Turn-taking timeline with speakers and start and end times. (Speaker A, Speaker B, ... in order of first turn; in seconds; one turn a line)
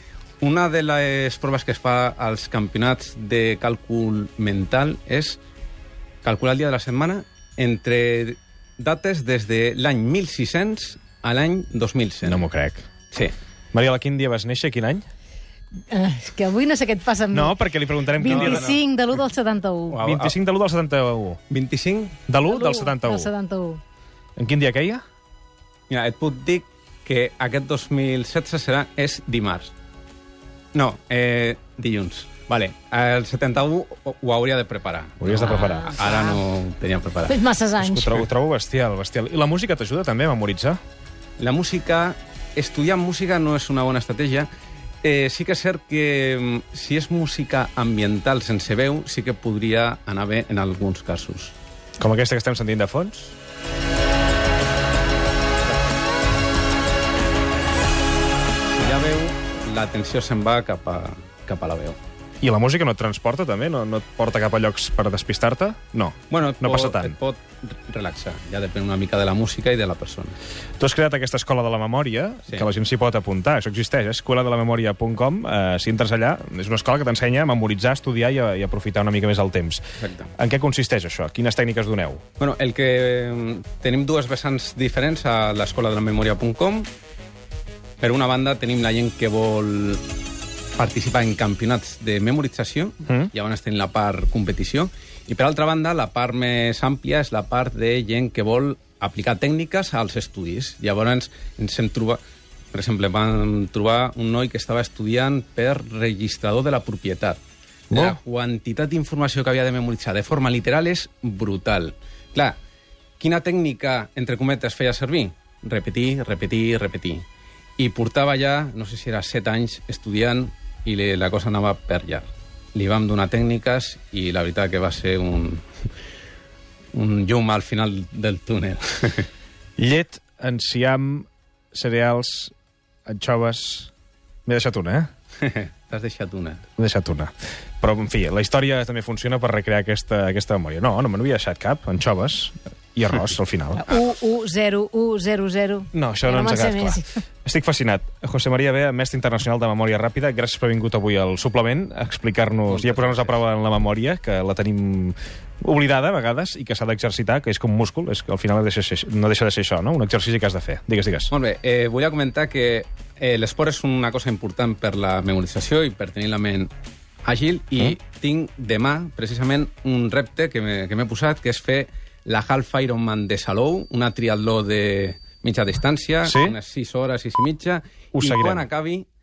Speaker A: 0.4-5.4
Speaker A: 6.2-12.4
Speaker B: 12.2-12.8
Speaker B: 13.7-15.1
Speaker C: 15.9-20.0
Speaker B: 17.3-18.7
Speaker A: 18.2-18.8
Speaker A: 19.9-20.3
Speaker B: 20.0-21.4
Speaker A: 21.5-22.2
Speaker B: 22.3-23.3
Speaker C: 22.5-23.8
Speaker B: 24.4-25.0
Speaker A: 25.9-29.7
Speaker A: 30.7-37.4
Speaker B: 35.2-36.0
Speaker C: 35.6-36.4
Speaker C: 37.3-38.2
Speaker B: 37.8-40.8
Speaker A: 41.4-44.5
Speaker A: 45.0-51.5
Speaker B: 52.0-53.4
Speaker A: 58.7-62.0
Speaker B: 62.4-67.2
Speaker A: 66.3-70.4
Speaker B: 70.8-79.8
Speaker A: 80.0-80.3
Speaker B: 80.4-82.2
Speaker A: 82.4-86.9
Speaker A: 88.0-90.0
Speaker A: 90.8-102.2
Speaker A: 102.7-112.6
Speaker B: 107.9-108.2
Speaker A: 113.2-117.2
Speaker A: 117.8-125.7
Speaker A: 126.9-129.3
Speaker B: 129.8-132.5
Speaker B: 133.1-133.9
Speaker B: 134.4-135.1
Speaker A: 135.4-136.7
Speaker B: 136.8-143.9
Speaker C: 143.8-147.2
Speaker B: 145.9-161.3
Speaker A: 152.7-153.4
Speaker A: 161.3-166.7
Speaker A: 167.2-179.1
Speaker B: 176.2-176.6
Speaker B: 178.1-178.7